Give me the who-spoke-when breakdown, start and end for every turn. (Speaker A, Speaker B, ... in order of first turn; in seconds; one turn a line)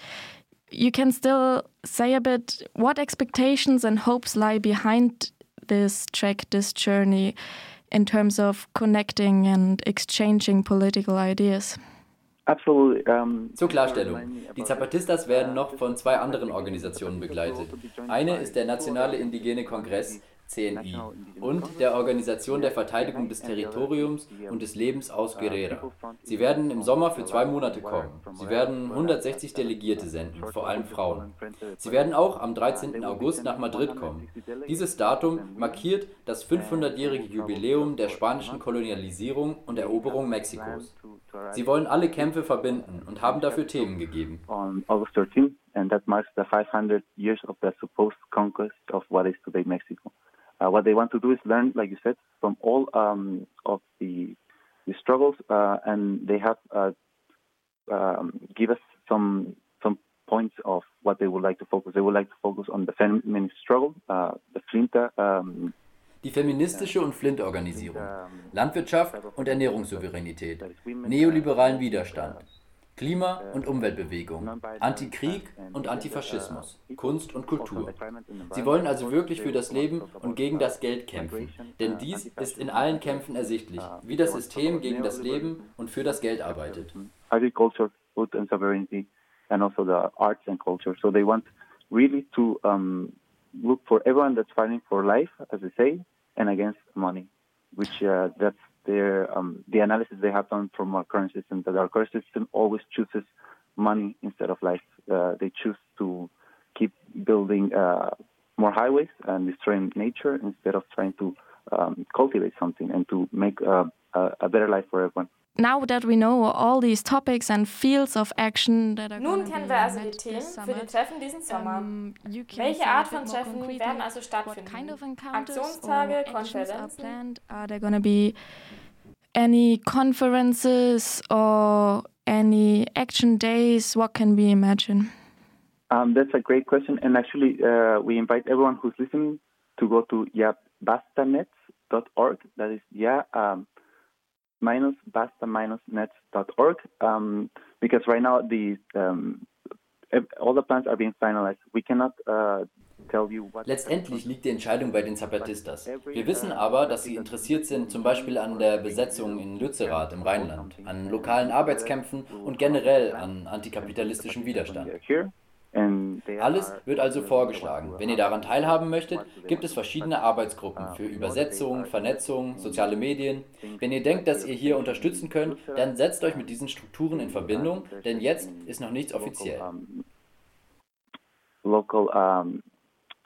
Speaker A: 0.7-7.4
Speaker A: 7.9-11.8
Speaker B: 12.5-24.6
Speaker C: 13.6-31.3
Speaker B: 25.3-35.9
Speaker C: 31.8-40.9
Speaker B: 36.5-56.9
Speaker C: 41.5-44.4
Speaker B: 57.9-65.7
Speaker C: 66.2-72.4
Speaker B: 66.7-67.0
Speaker B: 67.7-72.5
Speaker C: 73.0-78.0
Speaker B: 73.4-115.3
Speaker C: 78.5-86.9
Speaker A: 115.6-120.9
Speaker D: 119.2-121.9
Speaker A: 121.5-128.4
Speaker D: 122.5-127.2
Speaker A: 129.4-135.1
Speaker B: 135.9-143.7
Speaker B: 144.6-149.5
Speaker B: 150.1-176.5
Speaker C: 153.7-164.9
Speaker C: 166.4-179.7
Speaker B: 177.1-180.1
Speaker B: 181.6-182.6